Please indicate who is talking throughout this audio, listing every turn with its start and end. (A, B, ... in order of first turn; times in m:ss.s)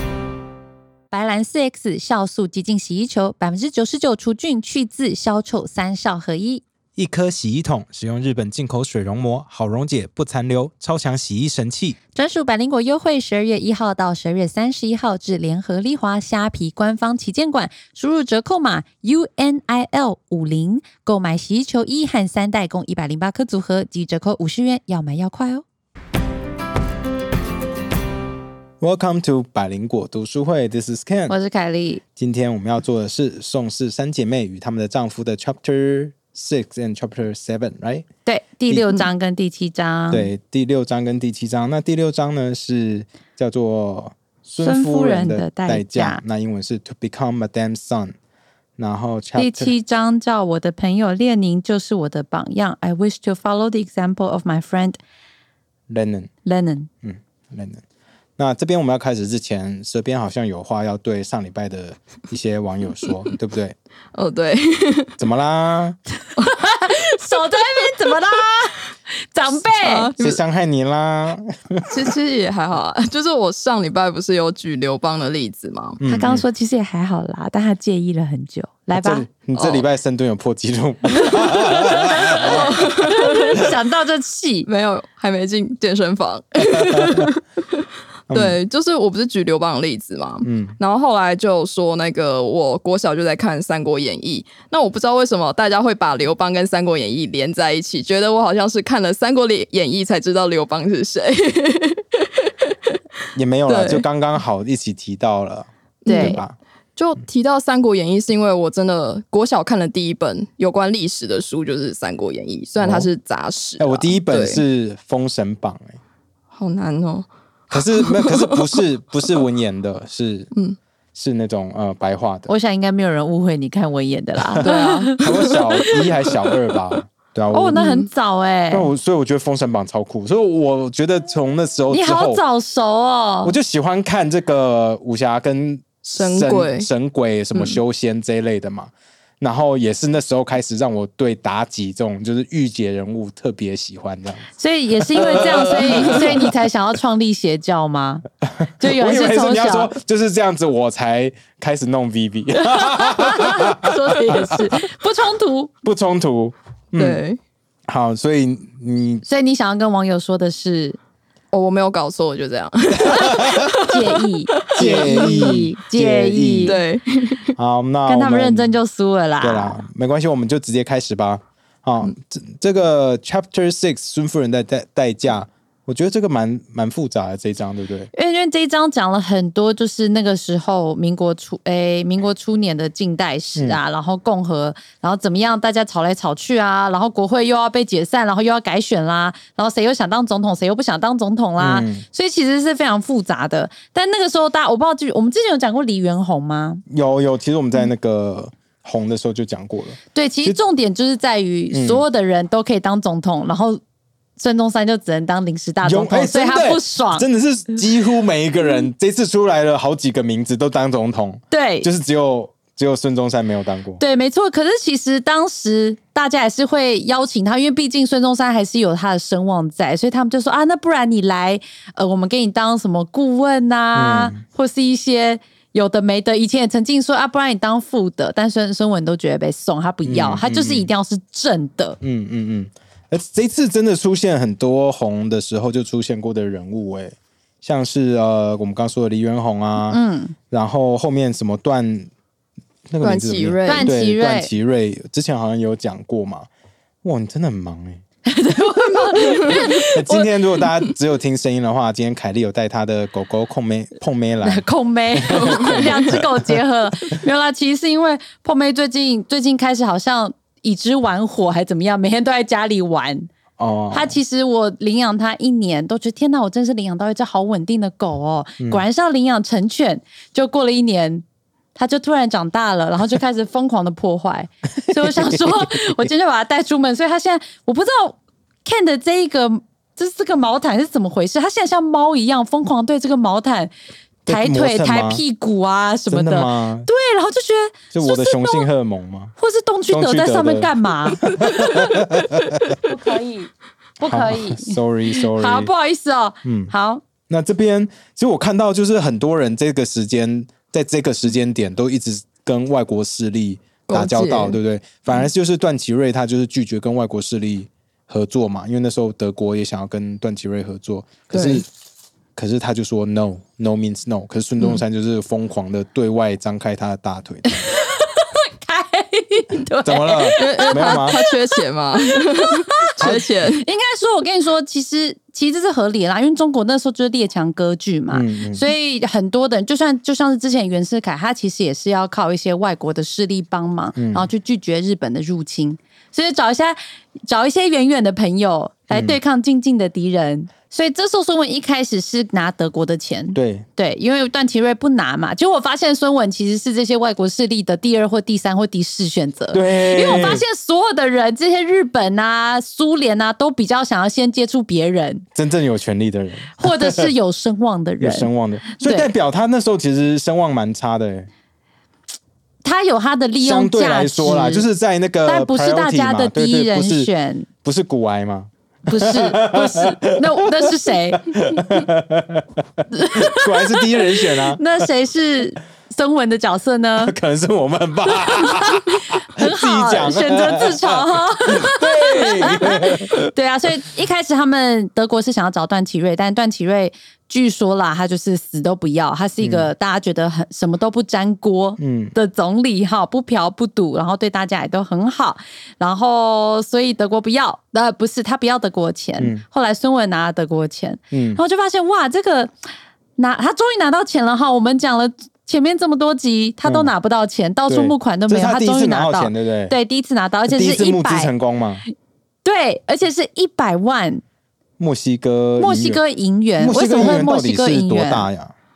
0:01.1-0:06.6 A
0:07.0-0:12.0 B
0:12.1-0:25.6 A
0:28.8-0:31.3 B
0:31.3-0:32.0 A
0:32.2-0:38.0 B
0:38.2-0:40.3 A
0:38.7-0:39.1 B
0:40.1-0:48.2 B
0:44.6-0:46.2 A
0:48.8-0:49.7 B
0:49.4-0:55.0 A
0:55.9-0:56.3 B
0:56.4-0:56.9 A
0:57.0-0:57.8 B
0:58.4-1:03.7 B
1:04.1-1:05.2 C
1:05.2-1:06.0 B
1:06.4-1:10.1 A
1:09.6-1:10.4 C
1:10.2-1:12.1 B
1:11.9-1:16.0 C
1:16.0-1:16.4 B
1:16.0-1:19.2 A
1:18.9-1:22.9 B
1:19.5-1:19.8 C
1:21.5-1:24.7 A
1:22.3-1:23.6 C
1:24.6-1:42.7 C
1:26.8-1:27.3 B
1:28.3-1:28.6 B
1:30.4-1:30.7 B
1:43.3-1:46.5 B
1:43.7-1:44.0 C
1:46.0-1:46.4 C
1:46.0-1:46.4 A
1:47.0-1:54.6 C
1:52.8-1:53.1 B
1:53.8-1:56.0 B
1:56.5-1:58.8 C
1:57.7-2:00.5 B
2:01.1-2:02.5 B
2:02.5-2:05.9 A
2:04.6-2:06.4 C
2:05.2-2:07.9 B
2:07.5-2:08.9 A
2:07.8-2:08.0 C
2:08.7-2:12.4 B
2:11.9-2:13.5 A
2:13.4-2:26.5 B
2:16.0-2:16.9 C
2:17.5-2:17.8 C
2:24.6-2:28.2 A
2:25.2-2:26.4 C
2:28.6-2:34.5 B
2:28.8-2:29.9 A
2:32.7-2:35.7 A
2:35.8-2:37.2 B
2:37.0-2:37.4 C
2:37.9-2:39.2 B
2:39.2-2:41.0 A
2:41.5-2:45.7 C
2:43.0-2:43.7 B
2:43.1-2:46.8 A
2:44.8-2:46.8 B
2:46.6-2:47.5 C
2:47.6-2:48.8 B
2:48.0-2:49.8 A
2:49.4-2:58.1 B
2:58.1-3:16.8 A
3:11.6-3:12.0 B
3:16.9-3:20.6 B
3:20.1-3:23.8 A
3:21.7-3:22.0 B
3:24.4-3:27.2 A
3:25.8-3:34.0 B
3:31.5-3:31.9 A
3:34.0-3:52.0 A
3:43.9-3:44.4 B
3:50.0-3:50.9 B
3:52.0-4:02.1 B
3:59.9-4:00.3 A
4:02.9-4:06.5 B
4:03.0-4:03.9 C
4:03.7-4:04.5 A
4:07.0-4:08.0 B
4:08.2-4:10.3 A
4:09.3-4:16.5 B
4:14.4-4:23.3 A
4:15.3-4:15.9 C
4:23.6-4:24.2 B
4:23.9-4:31.2 A
4:31.8-4:43.7 A
4:34.9-4:36.0 B
4:44.2-4:45.2 B
4:44.3-4:48.7 A
4:46.1-4:46.9 B
4:47.9-4:49.3 B
4:49.4-4:52.1 A
4:49.9-4:52.8 B
4:52.8-4:53.5 A
4:54.0-4:57.0 A
4:54.0-4:55.7 B
4:56.4-4:56.7 B
4:57.3-5:11.7 B
5:03.9-5:04.6 C
5:11.3-5:11.6 C
5:12.4-5:17.6 B
5:17.7-5:21.6 A
5:19.8-5:21.2 B
5:20.4-5:23.6 C
5:22.4-5:22.8 A
5:23.0-5:23.3 B
5:23.5-5:55.2 A
5:28.1-5:28.6 B
5:34.0-5:34.2 B
5:38.9-5:39.2 B
5:43.3-5:43.6 B
5:49.5-5:50.4 B
5:55.3-5:57.1 B
5:56.6-5:59.1 A
5:58.0-6:01.3 B
6:02.6-6:04.6 A
6:03.4-6:07.1 B
6:05.2-6:07.5 A
6:07.6-6:10.7 B
6:08.9-6:11.8 A
6:11.2-6:14.6 B
6:12.9-6:17.1 A
6:17.0-6:23.3 B
6:18.1-6:42.5 A
6:29.4-6:29.7 B
6:31.8-6:32.1 B
6:39.2-6:39.4 B
6:41.1-6:41.4 B
6:43.2-6:51.3 A
6:46.6-6:46.9 B
6:47.7-6:49.7 B
6:50.5-6:51.8 B
6:52.4-6:54.2 A
6:54.8-6:56.0 B
6:55.6-6:58.3 A
6:56.6-6:58.5 B